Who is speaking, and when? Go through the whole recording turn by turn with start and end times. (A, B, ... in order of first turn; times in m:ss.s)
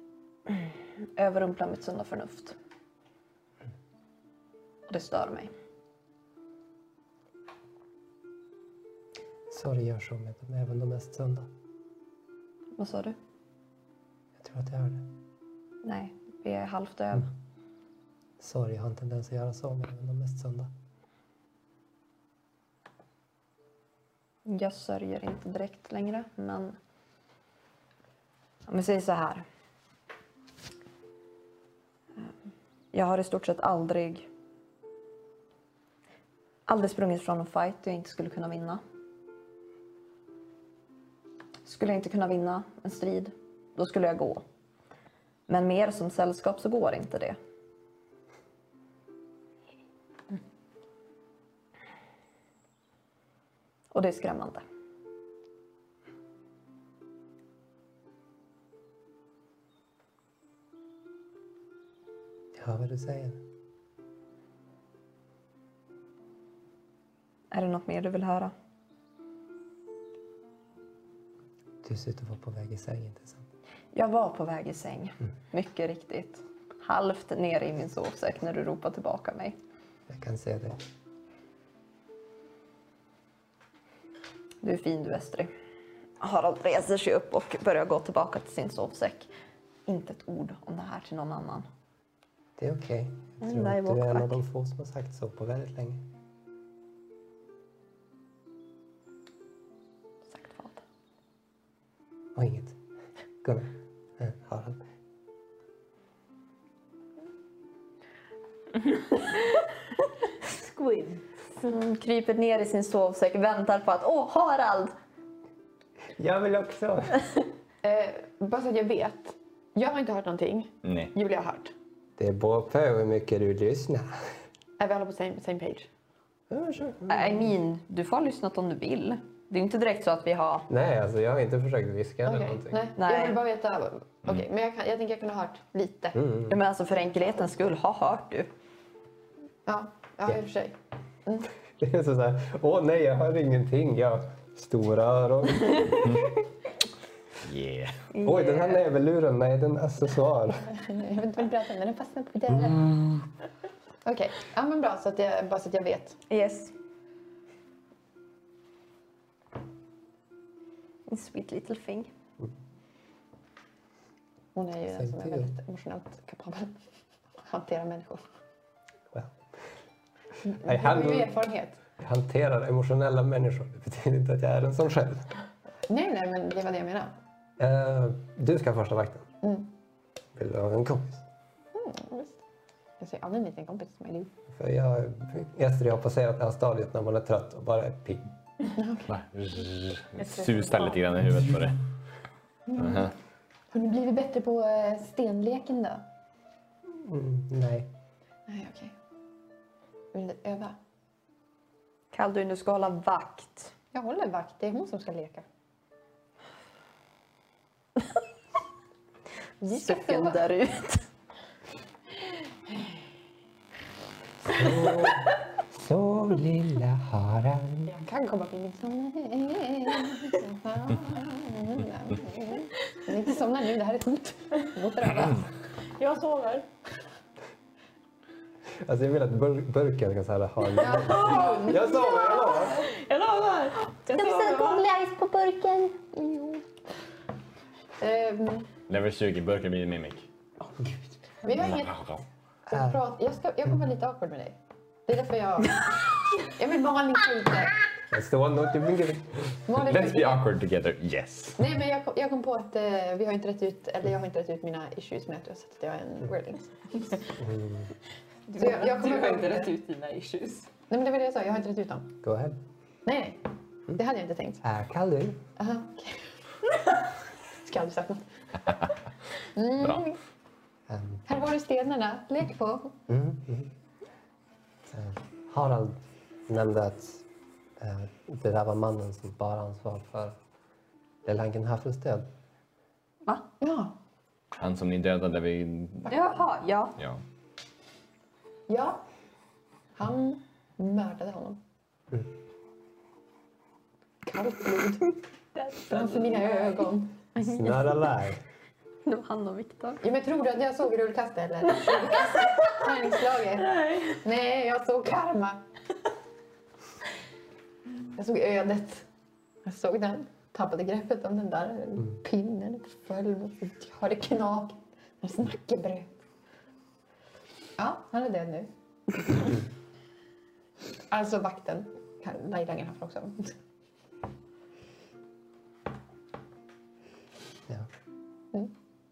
0:00.5-0:02.5 A
0:04.9-0:05.5 A
0:09.5-0:11.5 B
0:12.8-0:13.2 A
0:14.4-0:15.1 B
0:15.8-0:17.3 A
0:18.4-0:20.7 B
0:24.4-0:26.8 A
0:28.7-0:29.4 A
0:32.9-0:34.3 A
0:36.7-0:38.8 A
0:41.6-0:44.4 A
0:45.5-0:47.4 A
0:53.9-0:54.6 A
1:02.5-1:03.4 B
1:07.5-1:08.5 A
1:11.8-1:13.4 B
1:13.9-1:19.6 A
1:20.1-1:20.8 B
1:24.6-1:25.5 A
1:26.2-1:29.3 A
1:29.8-1:31.7 A
1:32.6-1:36.0 B
1:33.4-1:34.4 A
1:40.3-1:40.8 A
1:42.4-1:42.8 B
1:43.4-1:44.8 B
1:50.5-1:51.2 C
1:51.6-1:54.9 A
1:56.2-1:57.3 B
1:57.8-2:01.7 D
2:00.8-2:01.1 E
2:02.2-2:04.2 B
2:04.8-2:05.9 D
2:06.5-2:07.4 B
2:07.1-2:10.7 A
2:10.7-2:12.9 B
2:12.2-2:16.2 D
2:13.0-2:13.4 A
2:16.1-2:16.6 B
2:16.5-2:18.5 A
2:19.6-2:21.5 D
2:21.8-2:26.1 B
2:27.4-2:28.0 E
2:28.1-2:28.8 A
2:28.2-2:30.7 B
2:30.7-2:32.9 D
2:34.0-2:36.2 D
2:36.3-2:36.7 A
2:41.1-2:42.1 A
2:44.5-2:46.8 D
2:44.9-2:45.5 B
2:47.4-2:48.3 D
2:50.4-2:51.8 D
2:50.6-2:51.3 B
2:52.0-2:55.3 B
2:55.9-2:57.1 D
2:57.6-2:59.3 B
2:59.4-2:59.7 D
3:00.4-3:01.2 B
3:01.7-3:02.4 D
3:03.0-3:04.3 D
3:04.5-3:08.3 B
3:08.7-3:09.1 D
3:09.1-3:11.8 E
3:10.2-3:10.5 C
3:12.7-3:13.1 D
3:12.8-3:13.1 E
3:13.7-3:16.1 D
3:16.9-3:17.9 B
3:18.5-3:18.9 D
3:20.1-3:20.8 D
3:22.1-3:23.7 A
3:23.9-3:25.4 D
3:29.6-3:31.1 A
3:29.6-3:30.4 D
3:34.5-3:37.9 B
3:37.9-3:45.5 D
3:46.0-3:46.7 C
3:48.8-3:52.9 B
3:50.8-3:54.8 C
3:50.8-3:52.3 D
3:54.1-3:56.6 A
3:58.0-3:58.7 D
3:58.9-4:00.3 E
4:00.6-4:01.0 C
4:01.4-4:02.1 D
4:01.7-4:02.2 E
4:02.7-4:07.9 D
4:02.7-4:03.0 B
4:08.1-4:09.4 B
4:09.6-4:10.4 D
4:09.7-4:11.6 E
4:11.6-4:17.2 D
4:17.4-4:17.9 B
4:18.5-4:20.7 C
4:18.6-4:19.7 D
4:20.9-4:22.1 D
4:22.2-4:22.6 B
4:23.0-4:23.4 D
4:23.9-4:24.6 D
4:24.6-4:25.4 B
4:25.6-4:26.2 D
4:27.6-4:28.2 D
4:29.5-4:30.2 D
4:30.9-4:31.2 B
4:31.2-4:33.0 D
4:33.1-4:33.7 B
4:34.9-4:37.2 B
4:37.8-4:40.4 B
4:41.2-4:42.3 B
4:43.6-4:44.0 D
4:44.5-4:46.1 E
4:46.1-4:47.0 A
4:47.0-4:47.2 E
4:48.7-4:49.0 D
4:50.0-4:51.6 D
4:54.2-4:55.2 D
4:55.5-4:56.9 C
4:55.9-4:57.3 D
4:57.4-4:58.4 B
4:59.0-5:00.0 A
5:00.0-5:05.6 D
5:03.8-5:04.1 C
5:08.1-5:09.0 D
5:09.6-5:16.2 D
5:17.8-5:18.7 D
5:19.2-5:19.6 D
5:21.1-5:23.5 D